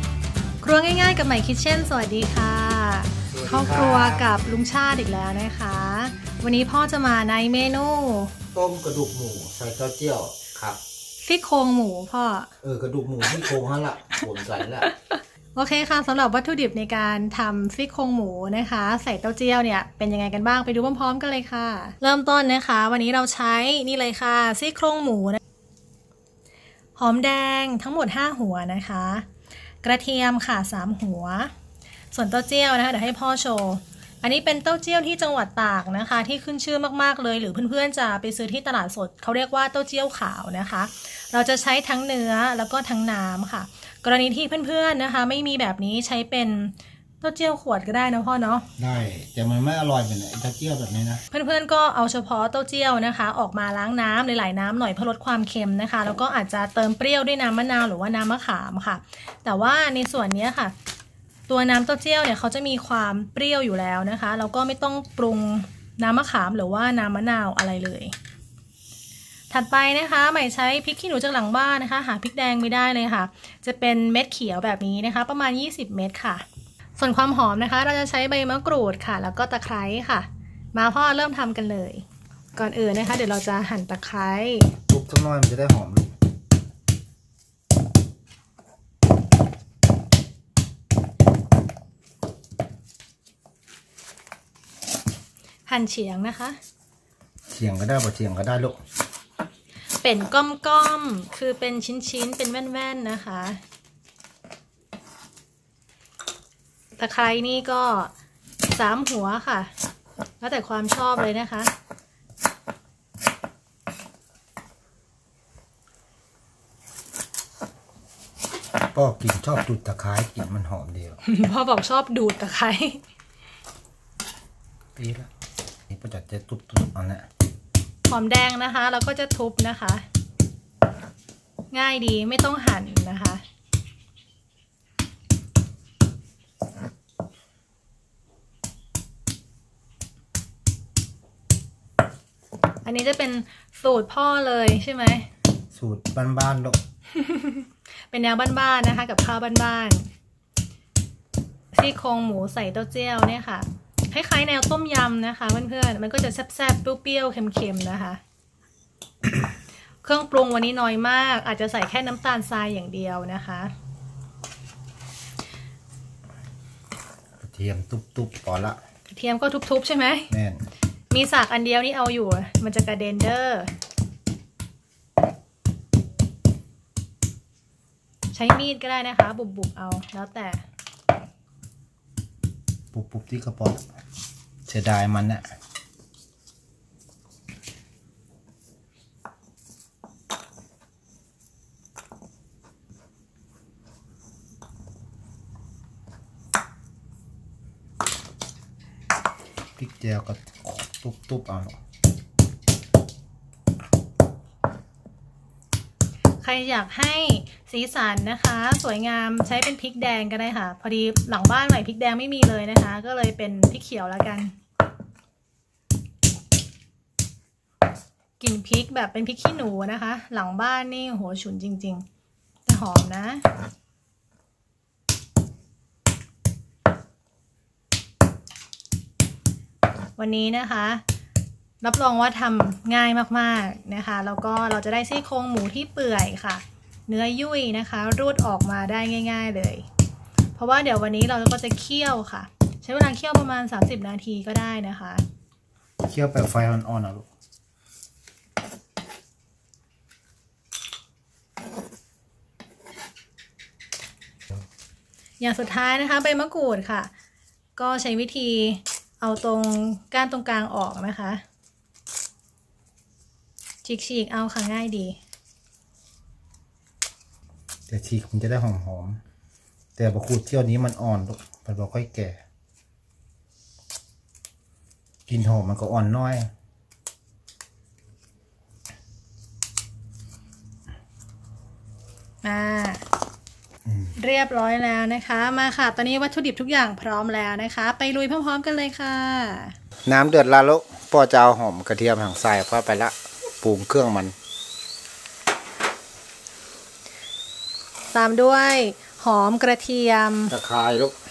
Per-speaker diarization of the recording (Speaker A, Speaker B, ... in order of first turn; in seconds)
Speaker A: 0.6-8.3, 11.2-12.5, 14.9-25.4, 27.0-29.3, 29.8-31.5, 32.1-48.7, 51.3-60.7, 61.5-68.1, 69.5-76.4, 77.0-82.0, 82.5-84.7, 95.7-96.6, 100.0-103.6, 107.0-108.1, 108.7-109.7, 110.4-111.7, 121.2-123.0, 128.1-130.0, 131.7-133.4, 142.8-145.3, 147.1-150.1, 151.7-158.2, 160.0-163.7, 169.1-170.3, 171.1-173.7, 178.3-180.6, 206.4-214.5, 218.4-222.1, 222.7-223.4, 230.2-231.0, 231.8-239.9, 240.6-245.2, 255.4-257.1, 257.8-261.4, 263.8-265.2, 282.4-283.0, 284.2-289.8, 298.1-300.5
Speaker B: 3.3-4.2, 8.5-10.8, 12.6-14.9, 48.8-51.2, 84.9-86.1, 97.5-98.8, 118.9-121.2, 125.0-125.3, 125.9-127.3, 145.7-146.8, 167.4-168.8, 170.3-170.6, 182.9-183.8, 184.7-185.4, 199.8-201.8, 246.0-247.3, 267.9-269.2, 270.0-272.4, 275.3-276.5, 283.9-284.1, 290.1-294.4, 300.5-301.1